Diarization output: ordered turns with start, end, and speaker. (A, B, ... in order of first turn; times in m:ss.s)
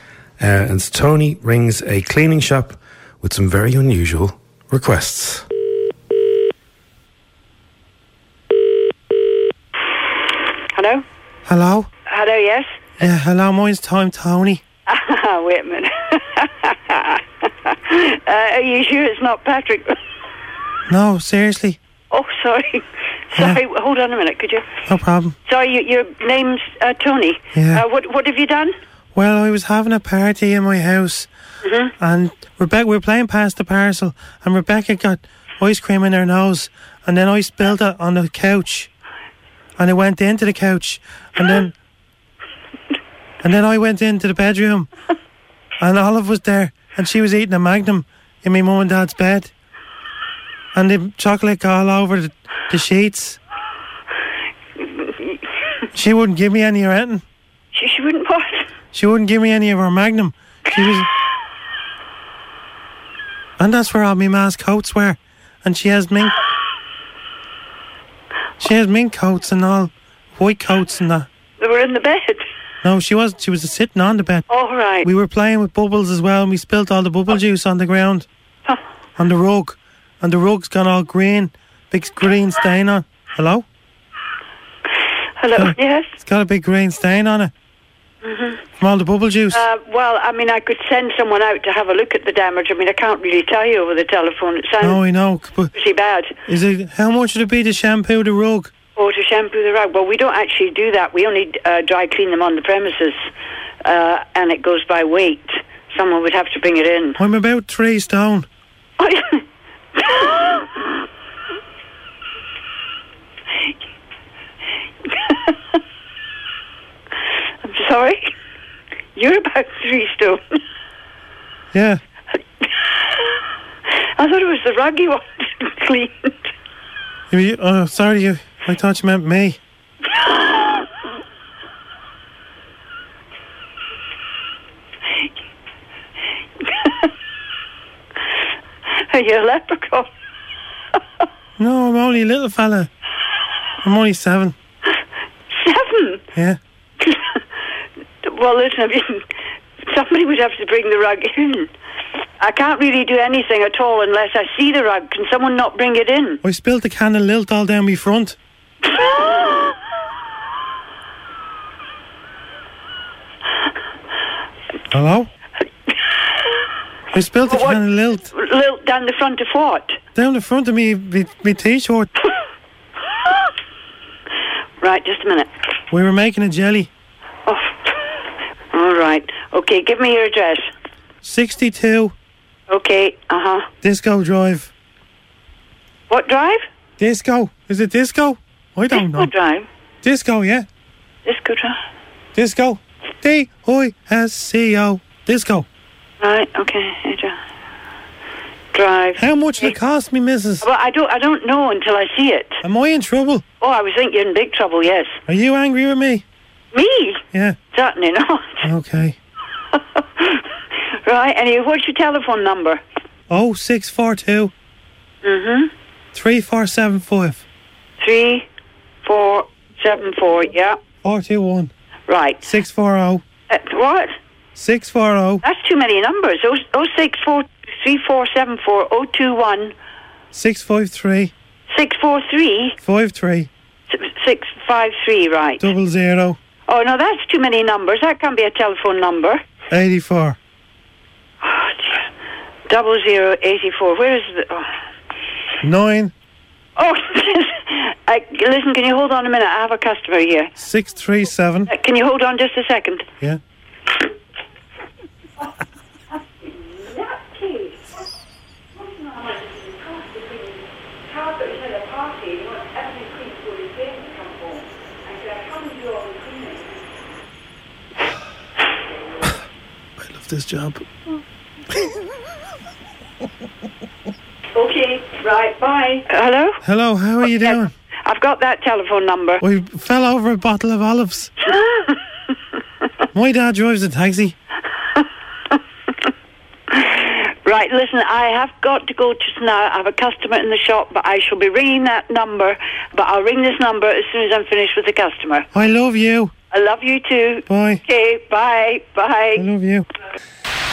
0:00.4-0:05.4 A
0:10.7-0:11.0 B
0:11.5-0:11.9 C
0:12.1-0:12.8 B
0:13.0-0:14.6 C
0:14.9-0:20.0 B
0:20.9-0:21.8 C
0:22.1-0:22.8 B
0:23.3-0:24.6 B
0:24.9-0:25.4 C
0:25.5-0:28.7 B
0:27.5-0:27.8 C
0:29.1-0:31.3 C
0:31.6-0:31.9 B
0:32.0-0:38.9 C
0:39.8-0:41.7 C
0:43.4-0:44.9 C
0:45.8-0:49.5 C
0:50.7-0:53.4 C
0:55.9-0:57.2 C
0:57.7-0:58.7 B
0:58.9-1:01.1 C
1:03.6-1:06.3 C
1:08.6-1:11.3 C
1:11.6-1:12.4 B
1:12.8-1:14.4 C
1:14.5-1:15.0 B
1:15.0-1:18.2 C
1:19.2-1:23.6 C
1:25.4-1:26.1 B
1:25.6-1:27.5 C
1:28.2-1:28.6 B
1:28.8-1:29.6 C
1:29.5-1:35.0 B
1:34.8-1:35.7 C
1:35.7-1:36.3 B
1:36.5-1:38.7 C
1:39.0-1:43.2 B
1:43.8-1:47.2 B
1:47.2-1:48.4 C
1:49.0-1:49.4 B
1:50.0-1:50.5 B
1:57.6-1:58.3 B
1:59.2-2:00.6 B
2:01.7-2:02.0 C
2:04.2-2:06.3 B
2:07.3-2:09.6 C
2:19.1-2:20.1 B
2:21.6-2:22.9 C
2:23.8-2:24.5 C
2:25.5-2:26.2 B
2:27.0-2:27.4 B
2:28.2-2:29.2 B
2:29.9-2:31.7 B
2:32.4-2:36.4 B
2:36.4-2:38.4 C
2:39.0-2:39.3 B
2:44.9-2:45.3 C
2:47.1-2:48.3 C
2:47.5-2:47.8 B
2:48.3-2:50.0 B
2:50.1-2:52.1 C
2:54.8-2:55.5 B
2:55.9-2:56.9 C
2:57.5-2:57.7 B
2:58.7-3:00.7 B
3:01.2-3:02.1 C
3:02.7-3:03.7 B
3:03.8-3:04.7 C
3:06.1-3:06.6 B
3:07.0-3:09.3 C
3:08.9-3:09.7 B
3:10.0-3:10.6 C
3:11.2-3:11.8 B
3:12.4-3:15.6 C
3:16.2-3:17.4 B
3:18.7-3:19.7 B
3:19.2-3:20.6 C
3:20.6-3:22.6 B
3:22.6-3:23.4 C
3:23.6-3:25.2 B
3:25.3-3:26.2 C
3:26.7-3:27.2 B
3:27.7-3:28.6 B
3:28.6-3:29.2 C
3:31.0-3:32.8 B
3:33.3-3:34.5 C
3:35.2-3:35.7 B
3:36.1-3:37.4 C
3:38.0-3:38.4 B
3:39.0-3:40.8 B
3:41.0-3:41.7 C
3:42.1-3:42.4 B
3:42.4-3:43.2 C
3:43.5-3:44.1 B
3:44.6-3:45.4 C
3:45.4-3:49.7 B
3:50.3-3:51.3 C
3:51.7-3:52.7 B
3:52.8-3:53.5 C
3:53.9-3:55.7 B
3:55.6-3:56.4 C
3:56.7-3:59.4 B
3:59.7-4:00.4 C
4:01.4-4:02.0 B
4:02.7-4:04.6 B
4:05.6-4:06.1 C
4:06.8-4:10.5 B
4:10.6-4:11.7 C
4:11.7-4:13.1 B
4:16.4-4:17.9 B
4:18.8-4:26.8 B
4:30.0-4:30.8 A
4:34.6-4:36.6 B
4:36.6-4:37.7 C
4:37.2-4:39.4 B
4:39.4-4:41.3 C
4:41.5-4:41.9 B
4:43.1-4:44.3 C
4:46.7-4:55.5 B
4:55.5-4:56.3 C
4:56.5-4:59.4 B
4:57.5-4:57.8 C
4:59.4-4:59.8 C